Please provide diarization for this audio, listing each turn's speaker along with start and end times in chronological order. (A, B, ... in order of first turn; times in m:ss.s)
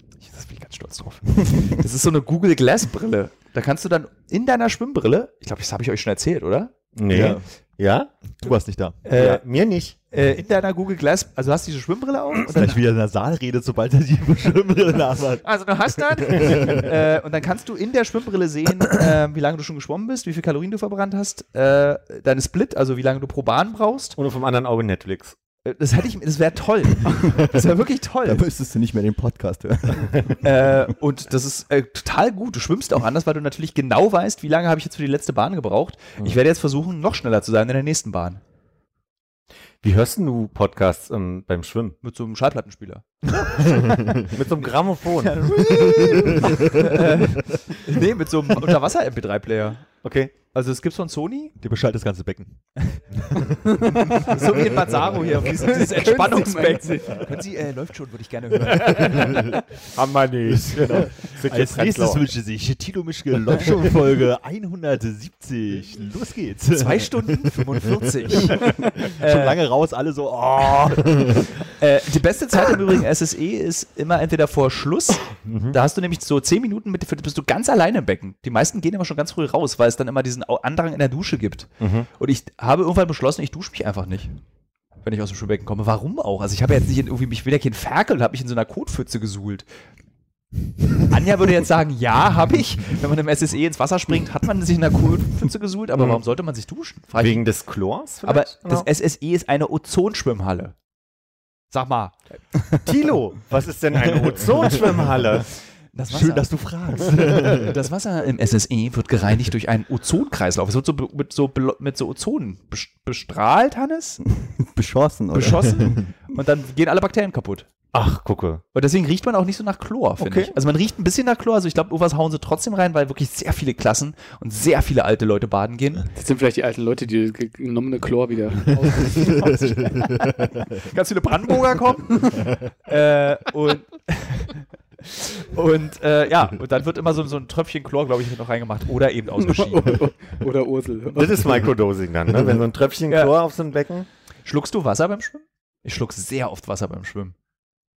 0:00.2-0:06.7 A
0:06.9-0:08.1 B
0:07.1-0:07.4 C
0:08.4-0:09.0 C
0:09.0-0:09.4 A
0:09.1-0:10.0 B
0:10.1-0:12.8 A
0:12.5-0:15.4 C
0:15.4-0:24.2 A
0:16.3-0:16.9 C
0:24.2-0:25.4 B
0:25.6-0:28.4 A
0:27.2-0:27.6 D
0:28.2-0:30.4 D
0:30.4-0:38.4 A
0:39.8-0:42.0 B
0:42.0-0:44.3 A
0:44.3-0:45.5 B
0:45.2-0:49.8 A
0:50.0-0:50.3 B
0:50.5-0:51.5 A
0:51.6-0:52.6 C
0:53.3-0:54.1 C
0:53.7-0:54.2 E
0:53.8-0:59.6 A
0:55.5-0:57.3 E
0:58.9-1:02.3 B
1:00.5-1:11.5 C
1:06.7-1:09.6 A
1:11.8-1:24.3 A
1:15.4-1:15.8 B
1:21.8-1:22.1 B
1:25.0-1:29.7 A
1:31.0-1:37.4 A
1:35.9-1:36.2 B
1:37.2-1:38.9 B
1:38.2-1:40.7 A
1:41.7-1:42.2 A
1:42.8-1:45.5 B
1:45.9-1:46.5 A
1:46.1-1:47.8 C
1:47.1-1:54.2 A
1:54.3-1:56.0 D
1:55.3-1:57.7 A
1:57.9-1:58.6 B
1:58.7-2:06.0 A
2:00.2-2:00.5 B
2:06.1-2:10.5 E
2:10.8-2:20.0 A
2:19.4-2:21.6 E
2:21.1-2:24.1 B
2:24.4-2:27.3 A